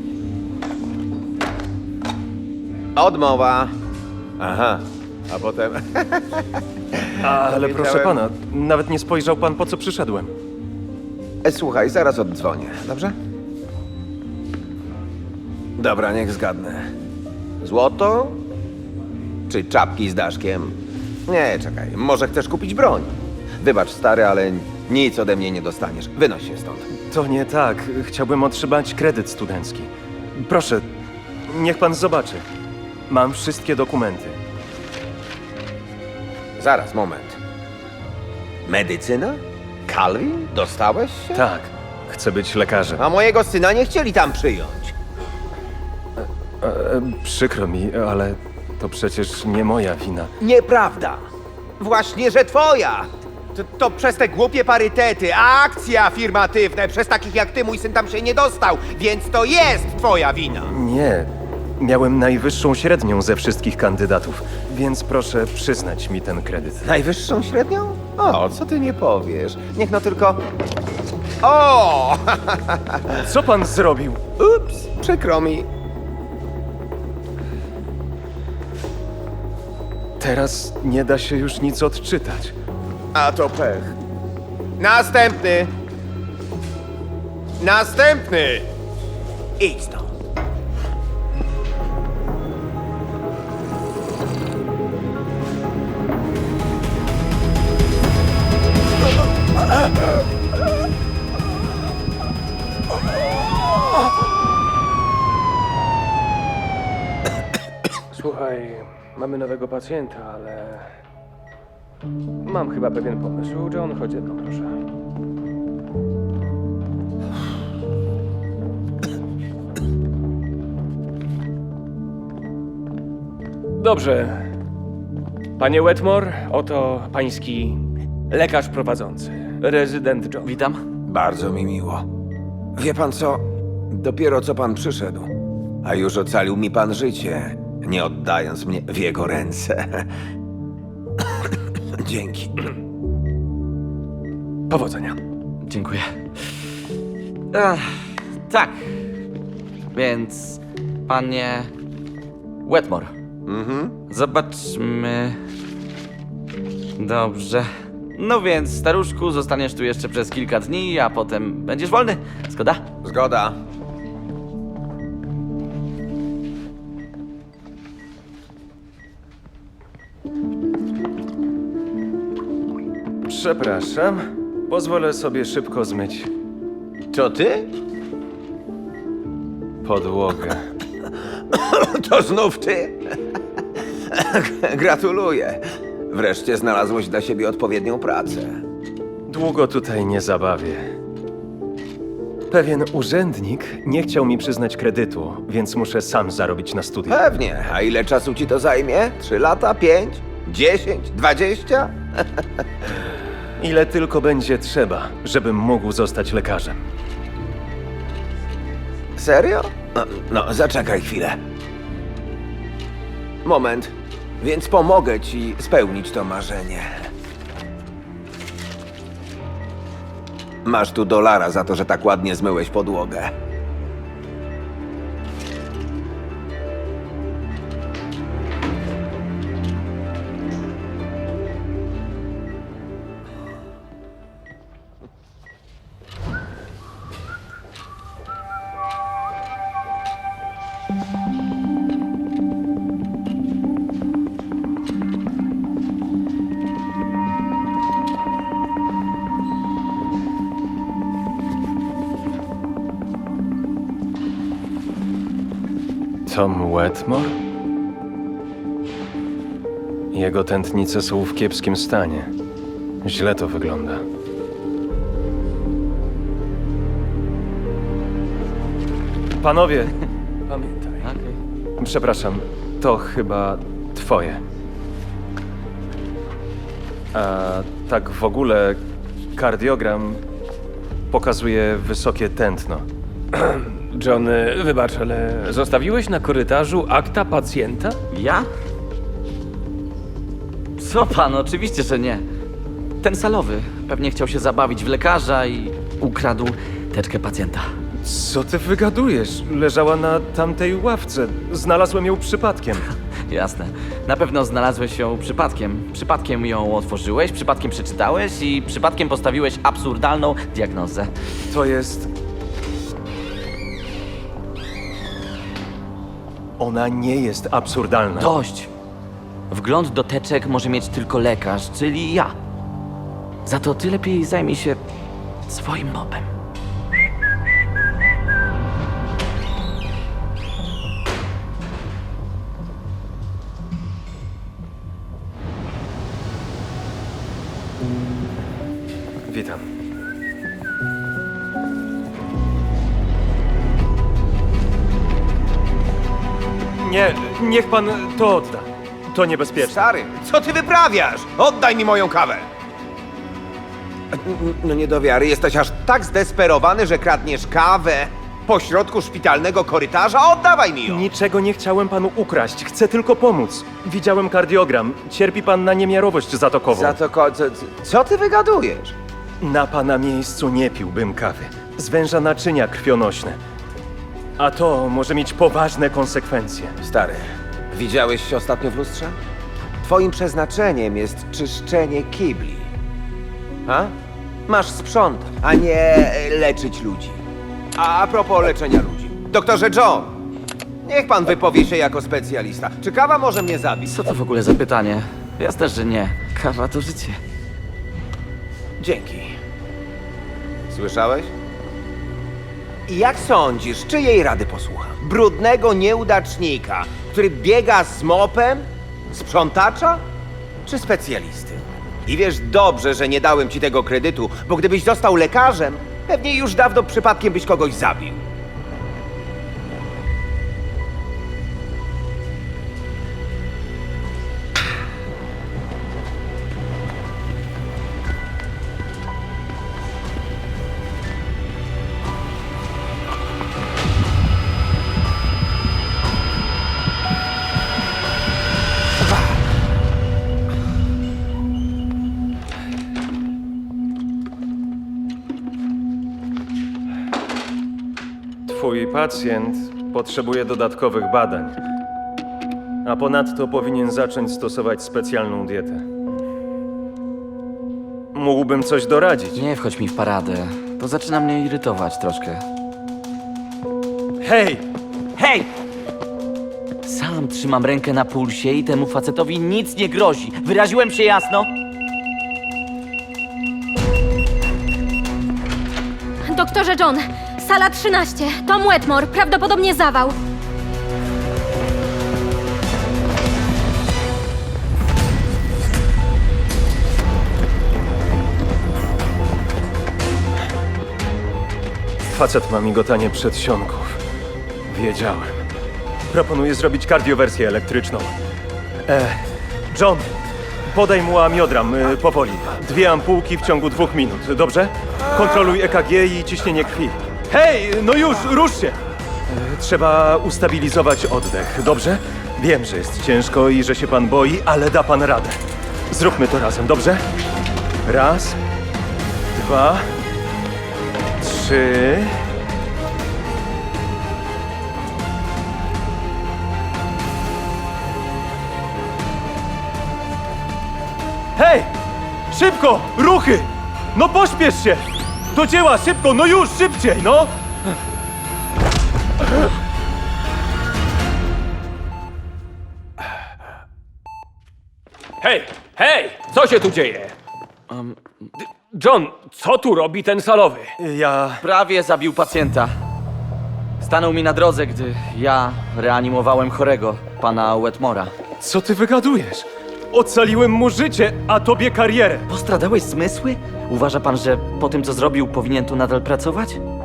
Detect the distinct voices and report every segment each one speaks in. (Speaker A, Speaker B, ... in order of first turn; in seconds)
Speaker A: 3.0-3.7, 4.4-8.2, 11.4-13.2, 15.8-16.9, 17.6-18.4, 19.5-26.9, 36.6-37.4, 38.7-41.5, 43.0-44.9, 50.4-51.2, 51.8-60.7, 66.8-70.4, 71.4-73.2, 74.4-75.7, 83.2-84.0, 84.8-85.7, 87.6-88.7, 89.6-90.1, 131.1-132.1, 132.8-135.3, 135.8-140.1, 141.5-142.7, 153.5-154.0, 163.0-163.6, 177.1-177.7, 181.2-183.2, 184.0-188.6, 197.1-202.4, 209.2-211.4, 213.4-217.1, 220.7-223.3, 349.6-352.5, 354.1-361.1, 366.7-368.9, 376.8-379.2, 379.8-382.7, 383.7-383.9, 384.5-387.2, 387.8-390.1, 390.9-393.9, 398.8-399.4, 400.7-401.3, 402.9-410.0, 410.6-418.2
Speaker B: 7.2-10.3, 27.1-30.9, 31.5-32.5, 33.1-34.4, 41.4-43.0, 46.6-50.3, 60.7-66.8, 73.2-74.2, 80.2-82.5, 144.7-145.0, 173.3-176.3, 179.8-180.7, 189.3-190.9, 192.5-197.2, 203.6-206.8, 256.3-257.4, 260.1-262.3, 263.0-264.1, 269.4-269.9, 271.8-274.4, 277.1-278.8, 279.4-280.2, 281.1-282.9, 298.0-302.9, 311.5-312.1, 316.6-318.3, 339.3-339.7, 346.8-349.9, 360.9-367.0, 369.4-373.4, 374.4-376.8, 448.5-451.6, 452.9-455.9, 458.1-459.4, 464.2-464.6, 492.1-494.0, 494.7-495.4, 496.1-498.1, 498.9-500.1, 500.7-517.0, 517.9-518.4, 519.3-519.9, 521.2-522.2, 531.4-531.7, 532.3-537.4, 550.8-551.4, 558.4-562.3
Speaker C: 108.1-110.9, 112.4-114.8, 123.8-124.5, 125.6-130.5, 144.8-145.2, 270.5-270.9, 283.3-288.0, 545.2-547.2, 548.7-550.8
Speaker D: 130.4-130.8, 145.6-146.1, 147.5-148.9, 149.9-151.7, 152.6-153.1, 154.1-155.4, 157.0-162.8, 271.0-271.4, 288.1-288.5, 290.8-292.2, 293.0-297.7, 303.3-311.1, 318.2-318.7, 319.5-322.3, 323.5-324.8, 325.5-326.3, 393.9-397.2, 459.4-462.4, 465.2-465.5, 466.9-471.5, 547.7-548.0, 551.4-552.7, 553.8-558.1, 562.3-566.6
Speaker E: 476.4-480.1